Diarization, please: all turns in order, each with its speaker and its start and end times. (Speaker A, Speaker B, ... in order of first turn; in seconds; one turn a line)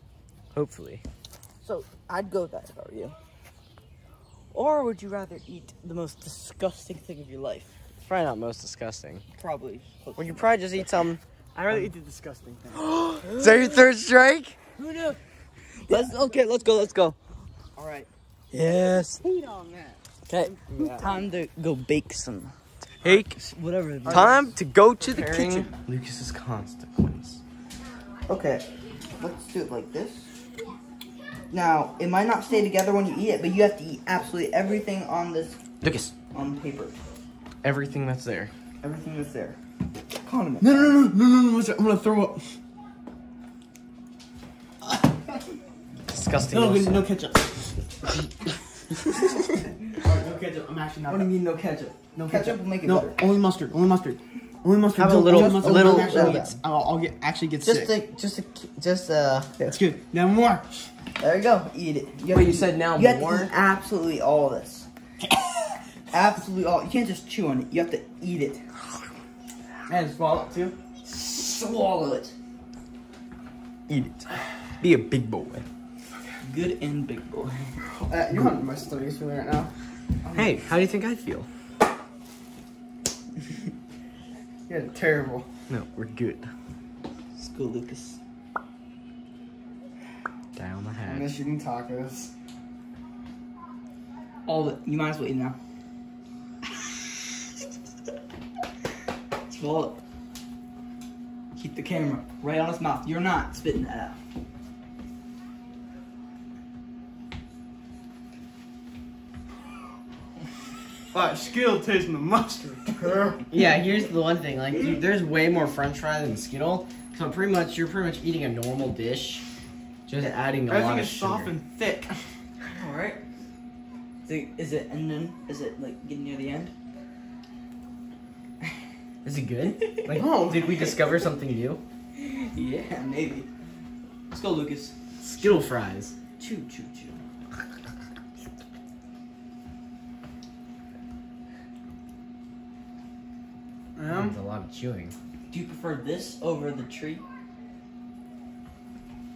Speaker A: 0.5-1.0
Speaker B: 1.6-3.1
Speaker B: 4.5-7.7
Speaker A: 8.0-9.2
Speaker B: 9.4-10.9
Speaker A: 10.2-11.9
Speaker C: 11.6-13.1
Speaker B: 12.9-13.8
Speaker A: 13.3-15.1
Speaker B: 15.8-17.2
Speaker A: 15.9-16.2
Speaker A: 17.8-21.2
Speaker B: 18.6-19.2
Speaker B: 20.3-22.6
Speaker A: 23.0-23.4
Speaker B: 23.1-25.7
Speaker C: 24.1-24.5
Speaker A: 24.1-27.4
Speaker B: 28.3-30.3
Speaker B: 31.5-35.6
Speaker A: 35.8-36.1
Speaker B: 36.3-37.0
Speaker A: 37.6-38.5
Speaker B: 38.8-39.6
Speaker B: 40.1-41.0
Speaker C: 40.6-42.5
Speaker A: 46.1-47.0
Speaker C: 46.5-47.8
Speaker C: 48.9-51.3
Speaker B: 51.1-53.2
Speaker C: 52.2-57.9
Speaker A: 55.0-56.5
Speaker B: 55.3-56.5
Speaker A: 57.7-59.7
Speaker B: 59.5-59.7
Speaker C: 59.7-60.9
Speaker B: 61.2-64.9
Speaker A: 62.3-63.5
Speaker B: 66.1-68.6
Speaker C: 69.9-70.8
Speaker B: 71.0-72.3
Speaker A: 73.9-74.3
Speaker A: 74.8-75.7
Speaker B: 76.4-77.8
Speaker C: 77.9-79.7
Speaker A: 80.3-81.5
Speaker C: 84.7-85.5
Speaker A: 85.7-86.5
Speaker B: 87.4-88.2
Speaker A: 90.5-91.3
Speaker C: 91.1-92.3
Speaker B: 94.5-95.6
Speaker B: 99.5-100.0
Speaker B: 101.5-104.2
Speaker C: 111.1-113.4
Speaker B: 112.9-113.4
Speaker A: 113.5-119.5
Speaker A: 120.1-121.5
Speaker C: 120.7-122.2
Speaker B: 122.7-123.2
Speaker B: 124.3-126.7
Speaker A: 129.2-131.8
Speaker C: 130.1-131.0
Speaker B: 132.2-133.5
Speaker B: 134.3-134.9
Speaker A: 135.2-136.2
Speaker B: 136.4-137.2
Speaker C: 144.0-144.4
Speaker A: 144.1-145.1
Speaker B: 145.5-147.2